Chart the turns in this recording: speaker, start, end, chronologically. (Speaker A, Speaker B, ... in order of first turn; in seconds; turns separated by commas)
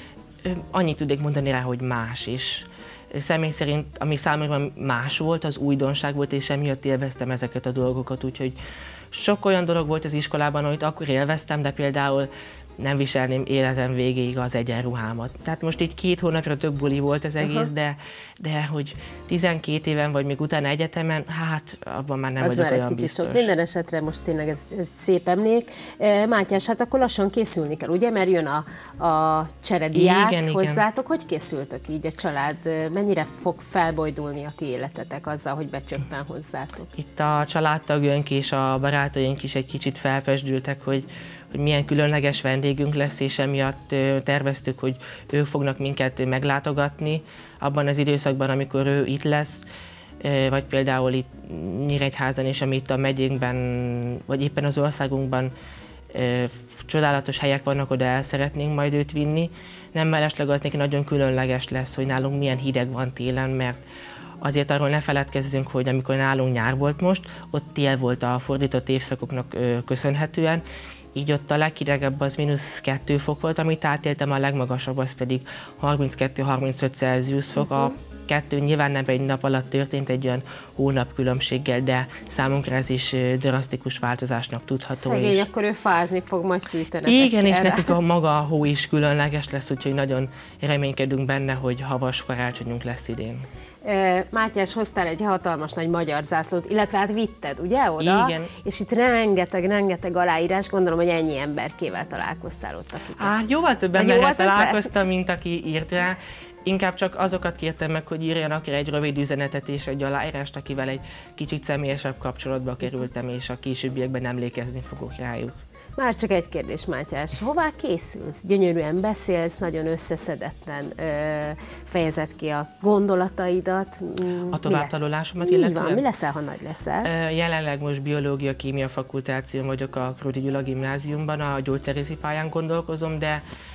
Speaker A: 0.4-8.5, Speaker A: 9.1-12.3, Speaker A: 12.8-23.5, Speaker B: 17.4-17.7, Speaker B: 22.4-36.9, Speaker A: 29.9-30.8, Speaker A: 37.0-49.6, Speaker A: 50.2-55.5, Speaker A: 56.1-63.8, Speaker A: 64.4-70.6, Speaker A: 71.1-85.5, Speaker B: 84.9-87.9, Speaker A: 87.0-93.4, Speaker B: 93.8-103.4, Speaker A: 98.0-98.5, Speaker A: 103.2-115.5, Speaker B: 103.9-104.9, Speaker B: 116.0-127.1, Speaker A: 124.5-126.0, Speaker A: 127.0-133.4